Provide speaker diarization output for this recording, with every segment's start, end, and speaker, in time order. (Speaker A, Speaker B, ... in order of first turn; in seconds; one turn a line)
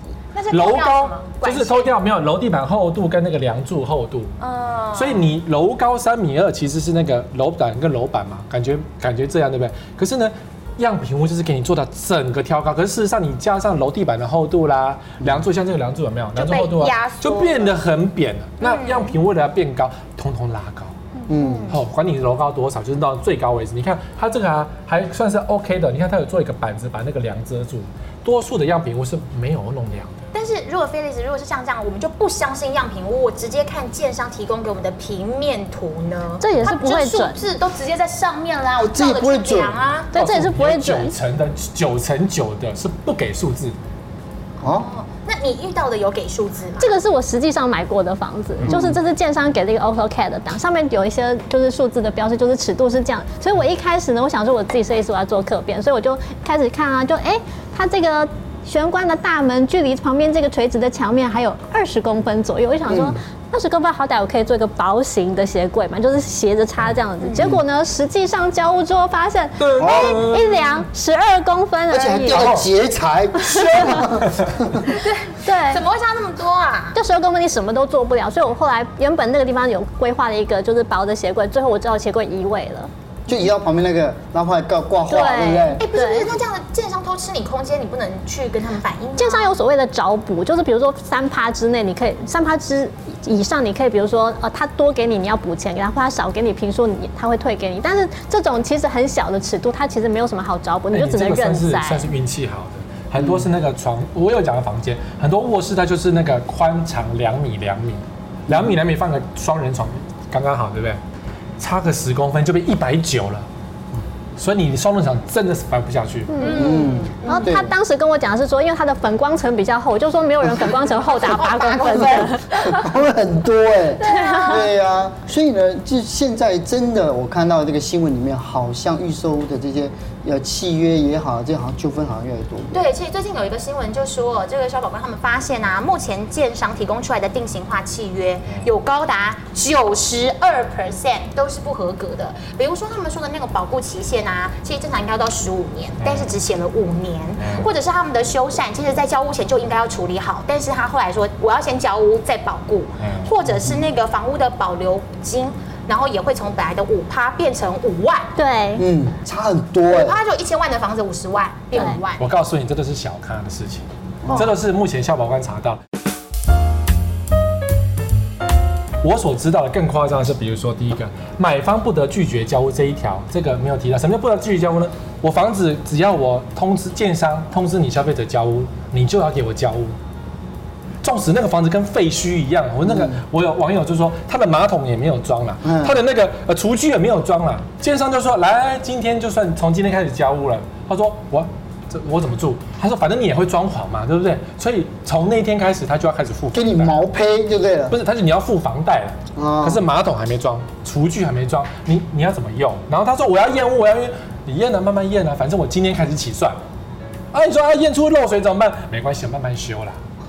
Speaker A: 0.3-1.9
Speaker B: 0.5-4.3
Speaker A: 4.4-5.3
Speaker B: 4.9-20.9
Speaker C: 15.2-15.5
Speaker A: 16.4-17.8
Speaker A: 18.6-19.1
Speaker A: 21.2-21.8
Speaker C: 21.3-21.8
Speaker B: 21.7-30.1
Speaker A: 30.3-40.1
Speaker D: 36.4-37.4
Speaker C: 38.9-39.8
Speaker B: 40.1-43.8
Speaker D: 40.1-41.1
Speaker C: 44.6-44.9
Speaker A: 44.6-46.9
Speaker D: 46.8-72.6
Speaker C: 48.6-49.0
Speaker C: 62.9-63.2
Speaker B: 69.6-70.8
Speaker C: 69.8-70.3
Speaker C: 71.9-74.9
Speaker B: 72.3-72.6
Speaker D: 73.5-74.0
Speaker A: 74.9-77.0
Speaker D: 75.4-75.8
Speaker D: 77.0-82.9
Speaker C: 83.3-85.8
Speaker D: 85.1-86.3
Speaker A: 85.8-89.5
Speaker D: 89.2-102.1
Speaker B: 100.9-111.0
Speaker B: 111.6-113.5
Speaker B: 114.4-116.3
Speaker D: 116.3-122.8
Speaker A: 116.4-117.5
Speaker C: 116.4-117.7
Speaker A: 121.0-122.8
Speaker C: 122.7-132.8
Speaker A: 124.0-124.7
Speaker D: 124.0-124.6
Speaker A: 132.7-158.3
Speaker B: 146.0-146.4
Speaker B: 147.4-147.7
Speaker B: 153.0-153.3
Speaker C: 153.5-153.8
Speaker D: 158.3-158.8
Speaker C: 158.8-160.2
Speaker A: 159.9-162.2
Speaker B: 161.8-165.8
Speaker C: 164.2-164.5
Speaker B: 169.0-179.9
Speaker B: 181.0-197.0
Speaker C: 182.8-183.2
Speaker C: 185.6-185.9
Speaker C: 196.5-197.9
Speaker B: 197.9-206.6
Speaker C: 199.4-199.8
Speaker B: 207.3-210.0